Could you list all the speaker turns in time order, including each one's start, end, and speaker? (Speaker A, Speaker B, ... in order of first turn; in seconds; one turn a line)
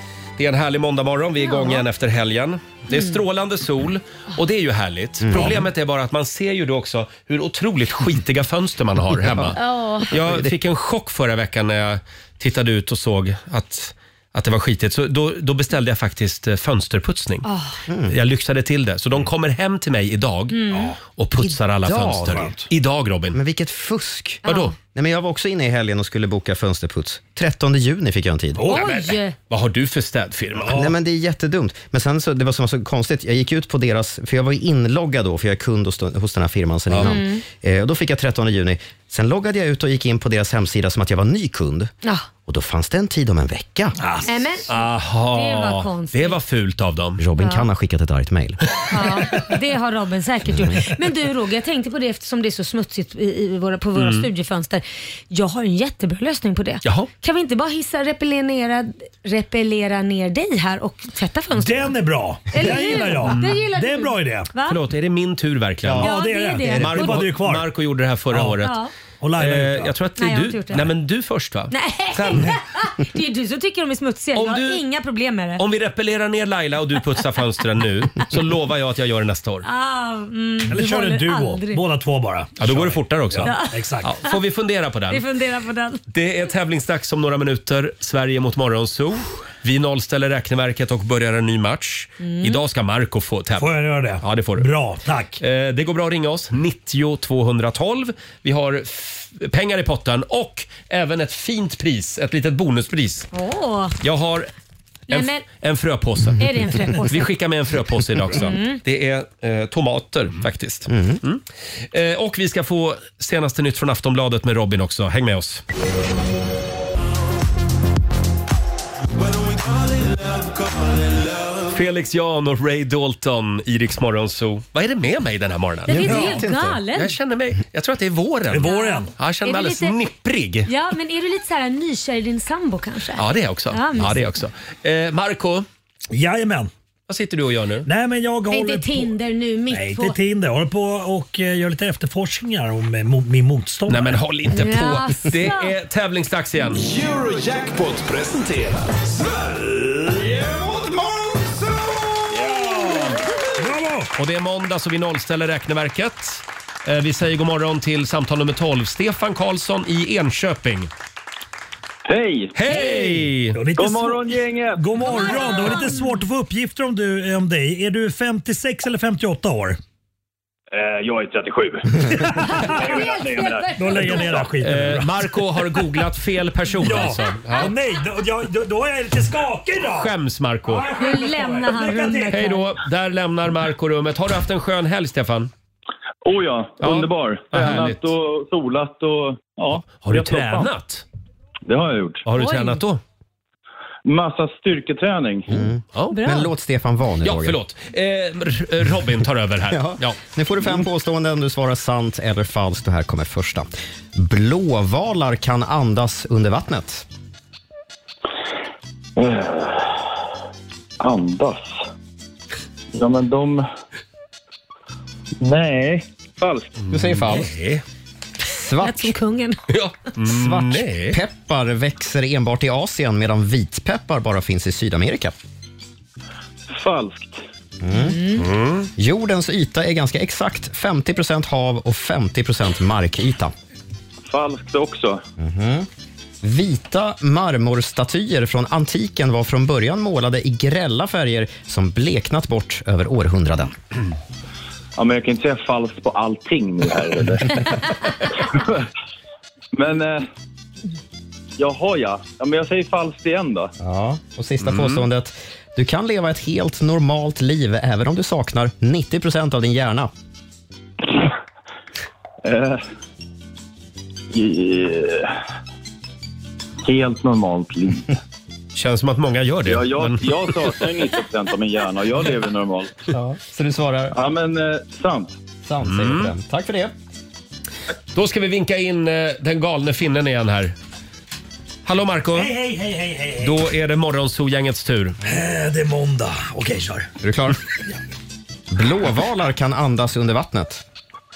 Speaker A: 0.4-17.4
Speaker B: 1.4-1.8
Speaker C: 5.2-5.7
Speaker B: 9.6-10.1
Speaker C: 10.1-10.5
Speaker B: 17.4-17.8
Speaker C: 17.9-18.1
Speaker A: 18.1-20.6
Speaker B: 20.5-20.9
Speaker D: 20.7-20.9
Speaker A: 21.1-23.4
Speaker C: 21.4-22.7
Speaker C: 23.3-28.7
Speaker A: 24.4-24.7
Speaker B: 24.4-24.7
Speaker D: 28.6-28.9
Speaker B: 28.7-29.3
Speaker A: 28.7-30.8
Speaker D: 30.6-30.9
Speaker C: 30.7-41.9
Speaker B: 37.0-37.4
Speaker C: 42.5-44.0
Speaker D: 44.0-44.3
Speaker B: 44.2-44.8
Speaker A: 44.7-47.2
Speaker B: 45.3-46.4
Speaker C: 47.2-48.6
Speaker B: 47.4-47.7
Speaker B: 48.9-62.0
Speaker C: 50.5-50.9
Speaker A: 54.0-54.3
Speaker A: 56.8-57.1
Speaker D: 61.6-64.5
Speaker B: 62.5-64.8
Speaker A: 64.7-66.1
Speaker D: 65.9-67.7
Speaker B: 66.0-67.2
Speaker A: 66.6-68.7
Speaker D: 68.3-68.6
Speaker B: 68.6-68.9
Speaker D: 69.2-69.9
Speaker A: 69.4-72.5
Speaker B: 70.2-70.9
Speaker B: 71.7-75.6
Speaker A: 74.3-74.8
Speaker A: 75.6-79.7
Speaker B: 79.6-81.8
Speaker D: 80.7-84.1
Speaker A: 82.6-85.2
Speaker B: 83.4-84.4
Speaker B: 85.1-86.0
Speaker A: 86.1-94.7
Speaker B: 92.2-92.6
Speaker D: 93.5-95.4
Speaker A: 95.4-103.3
Speaker B: 103.3-104.0
Speaker A: 104.0-104.5
Speaker B: 105.1-105.4
Speaker A: 105.1-115.6
Speaker B: 106.4-107.3
Speaker B: 108.3-108.8
Speaker C: 110.9-111.2
Speaker E: 119.1-121.8
Speaker A: 121.7-130.7
Speaker B: 125.8-127.1
Speaker C: 125.9-126.8
Speaker D: 128.5-129.1
Speaker B: 128.7-130.0
Speaker B: 130.7-134.3
Speaker A: 133.2-135.7
Speaker D: 136.1-136.7
Speaker A: 137.1-137.9
Speaker D: 137.8-139.1
Speaker B: 138.5-140.2
Speaker D: 139.7-144.2
Speaker A: 143.9-146.8
Speaker B: 144.5-145.7
Speaker E: 146.7-152.9
Speaker D: 153.6-154.1
Speaker A: 154.2-160.9
Speaker F: 162.1-162.5
Speaker A: 162.5-163.6
Speaker D: 163.5-169.8
Speaker F: 163.7-165.2
Speaker B: 165.1-166.2
Speaker F: 170.7-172.0
Speaker D: 172.0-172.8
Speaker B: 172.4-174.3
Speaker F: 172.6-173.7
Speaker D: 173.8-175.3
Speaker A: 174.6-177.7
Speaker D: 176.8-180.1
Speaker A: 180.0-180.9
Speaker D: 180.6-182.5
Speaker B: 181.0-182.7
Speaker A: 182.3-185.5
Speaker F: 186.2-190.7
Speaker A: 186.8-188.1
Speaker A: 189.8-191.0
Speaker F: 191.7-192.2
Speaker A: 192.2-193.0
Speaker B: 192.4-192.8
Speaker F: 194.1-195.5
Speaker C: 195.5-197.6
Speaker A: 195.9-196.2
Speaker B: 196.1-196.5
Speaker A: 197.2-200.2
Speaker C: 199.7-207.0
Speaker F: 209.2-209.9
Speaker F: 211.0-211.8
Speaker F: 212.9-213.6
Speaker F: 215.4-216.7
Speaker A: 216.8-217.8
Speaker C: 216.9-217.5
Speaker C: 218.4-219.1
Speaker B: 218.8-219.6
Speaker A: 219.7-221.2
Speaker C: 220.2-225.3
Speaker F: 226.7-227.4
Speaker C: 227.8-228.2
Speaker B: 227.9-228.4
Speaker A: 228.4-228.9
Speaker C: 228.9-233.5
Speaker F: 234.2-235.2
Speaker C: 235.4-235.9
Speaker C: 236.4-243.7
Speaker F: 245.0-248.8
Speaker F: 249.7-250.3
Speaker F: 251.6-253.7
Speaker C: 253.8-260.1
Speaker A: 254.6-255.0
Speaker F: 262.4-262.8
Speaker F: 264.3-265.4
Speaker F: 266.8-268.1
Speaker A: 268.7-270.7
Speaker F: 269.6-273.0
Speaker C: 273.1-274.1
Speaker F: 274.1-275.4
Speaker C: 275.6-276.9
Speaker A: 275.8-276.3
Speaker A: 278.1-280.7
Speaker A: 281.8-282.5
Speaker D: 282.3-283.5
Speaker A: 283.4-285.2
Speaker D: 285.2-287.1
Speaker C: 287.2-287.6
Speaker C: 288.7-290.8